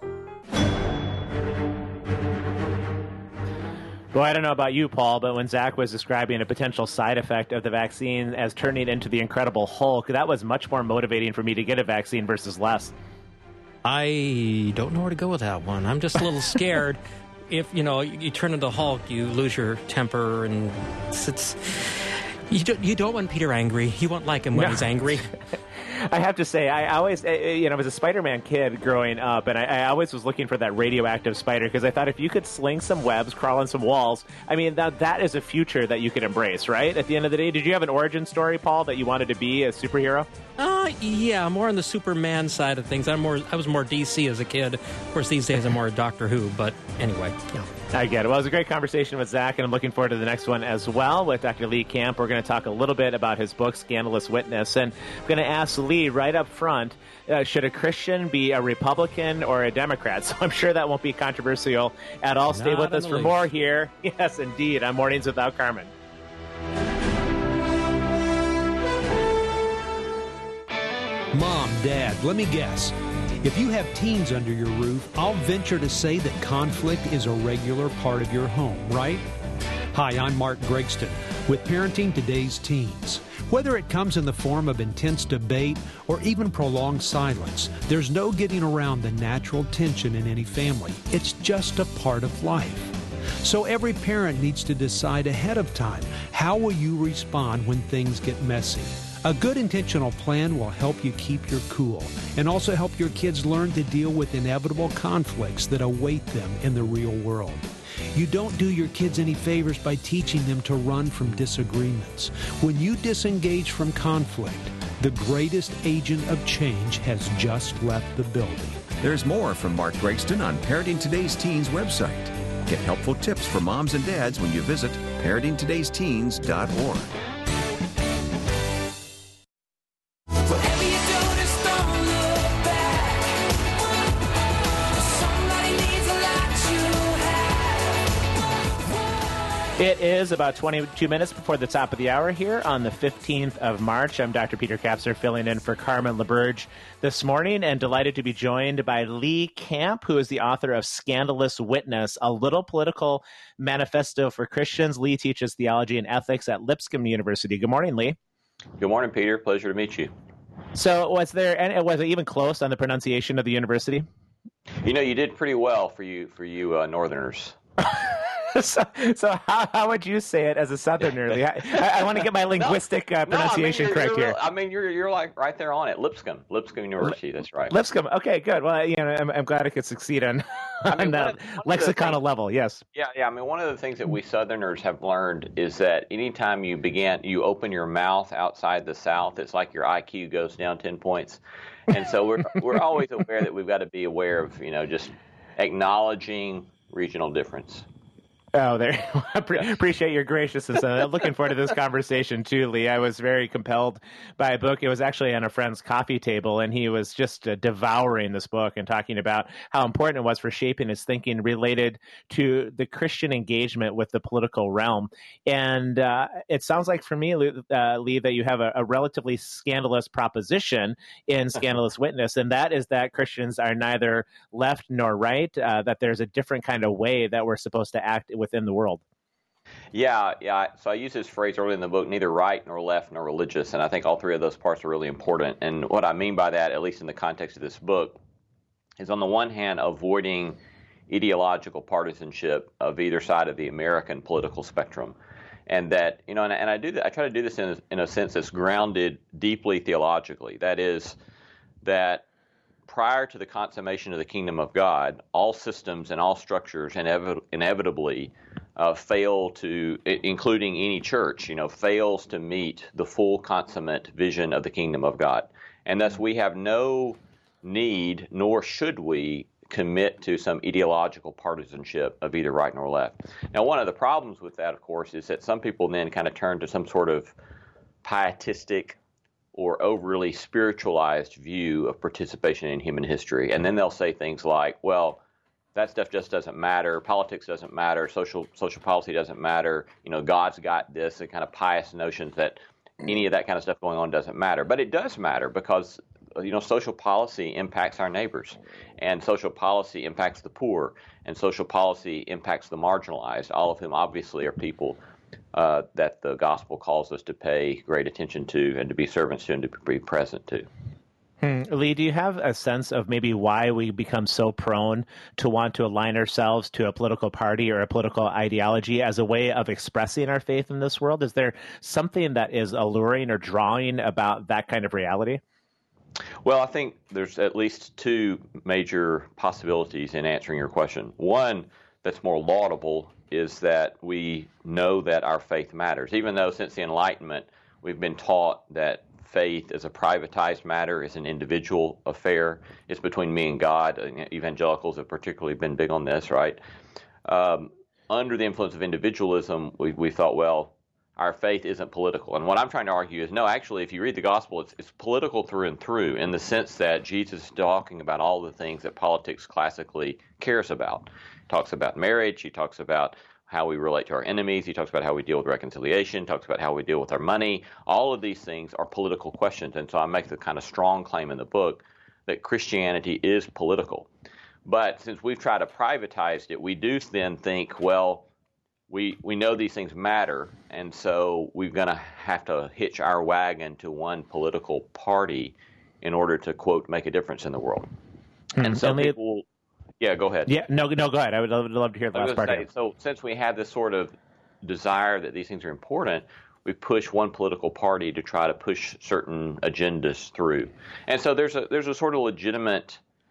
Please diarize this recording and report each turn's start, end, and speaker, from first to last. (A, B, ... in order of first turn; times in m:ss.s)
0:04.1-0:12.9 A
0:13.8-0:21.6 B
0:22.5-0:25.3 B
0:24.6-0:24.9 A
0:25.8-0:40.3 A
0:40.6-0:47.7 B
0:47.9-1:05.9 A
1:02.5-1:03.4 B
1:11.3-1:19.3 C
1:19.9-1:58.8 C
1:59.0-2:07.1 D
2:19.8-2:38.2 A
2:38.8-2:40.1 E
2:40.8-2:44.1 A
2:44.8-2:47.6 E
2:47.9-2:54.4 A
2:51.3-2:57.8 E
2:57.7-3:02.8 A
3:00.8-3:02.2 E
3:03.0-3:17.8 E
3:18.6-3:49.0 A
3:49.9-3:58.2 E
3:59.0-4:05.2 E
4:05.7-4:11.2 E
4:11.8-4:12.3 E
4:12.9-4:37.3 E
4:38.0-4:39.0 E
4:39.5-4:45.2 E
4:45.8-5:05.0 E
5:05.5-5:10.7 E
5:11.4-5:25.4 A
5:26.4-5:46.6 E
5:47.3-6:14.1 E
6:14.6-6:18.3 E
6:18.9-6:27.9 E
6:28.6-6:29.1 A
6:28.6-6:29.5 E
6:30.0-6:30.5 E
6:30.5-6:32.7 A
6:32.1-6:43.0 E